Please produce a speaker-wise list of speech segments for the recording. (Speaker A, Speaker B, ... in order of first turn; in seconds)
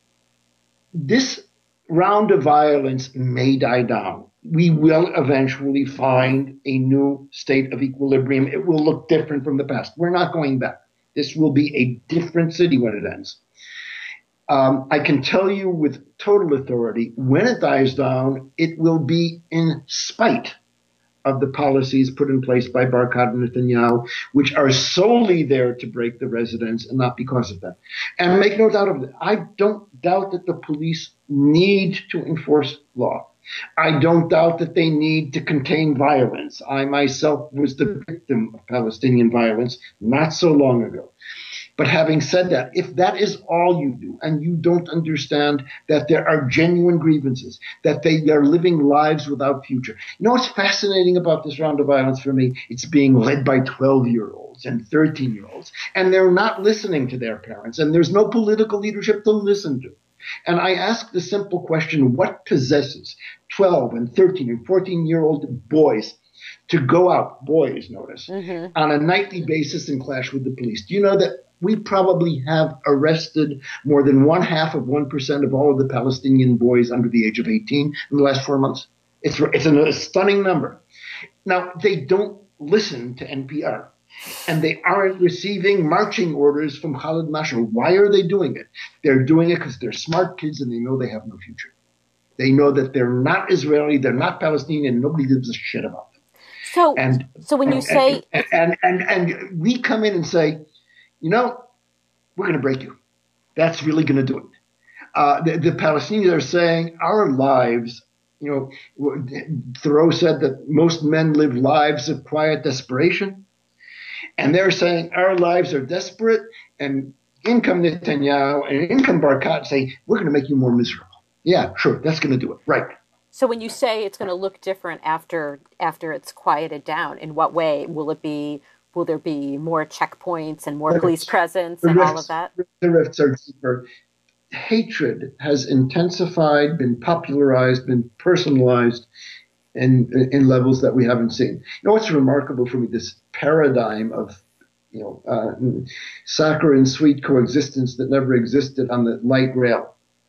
Speaker A: 0.9-13.4, 14.5-20.6, 21.2-41.1, 41.8-66.2, 66.7-80.8, 81.5-83.9, 84.5-91.7, 92.4-96.1, 97.0-100.6, 101.2-101.6, 102.4-103.0, 103.6-104.5, 105.2-113.5, 114.4-122.9, 130.9-131.2, 131.8-133.9, 134.5-139.1, 139.8-144.4, 144.9-149.9
Speaker B: 68.3-68.8, 96.7-98.3, 123.3-132.5